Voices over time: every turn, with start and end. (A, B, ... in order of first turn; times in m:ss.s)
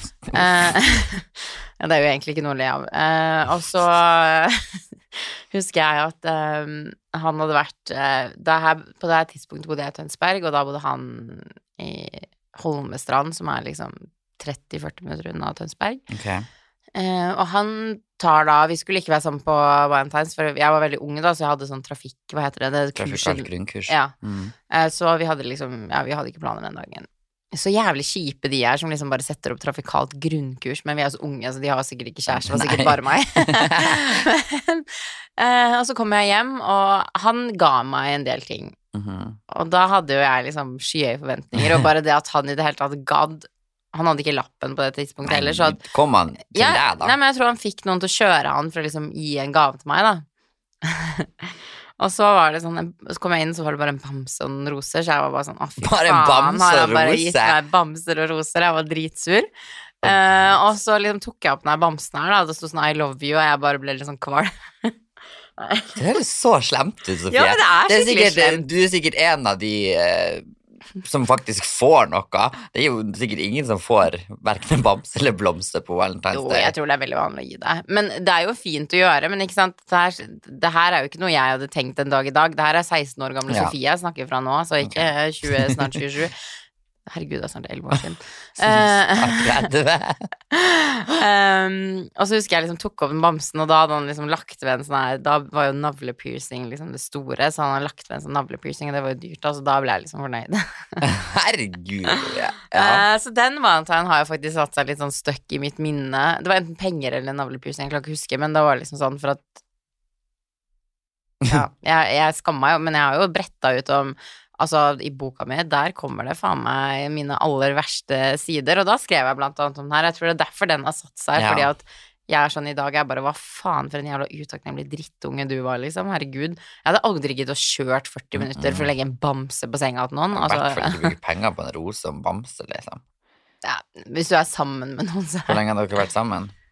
0:00.2-0:00.6 A
0:00.3-0:16.0 B
0:16.1-0:16.5 A
0:16.9-0:24.1 B
0:23.0-0:24.5 A
0:24.7-0:38.8 B
0:32.3-0:34.2 A
0:38.9-0:39.4 A
0:39.5-0:45.8 B
0:41.6-0:41.9 A
0:45.2-0:47.2 A
0:46.5-0:50.2 B
0:50.8-0:59.5 B
0:55.8-0:57.6 A
1:00.0-1:05.0 B
1:00.0-1:00.6 A
1:05.6-1:06.0 B
1:06.0-1:10.5 A
1:07.3-1:08.6 B
1:11.0-1:16.7 A
1:16.3-1:26.5 B
1:23.5-1:23.7 A
1:24.8-1:25.8 A
1:27.1-1:29.6 B
1:28.6-1:30.2 A
1:30.5-1:41.0 B
1:41.0-1:43.0 A
1:42.1-1:49.6 B
1:51.5-2:11.1 B
2:01.4-2:01.7 A
2:08.3-2:08.9 A
2:10.3-2:13.0 A
2:13.6-2:15.6 B
2:15.5-2:16.5 A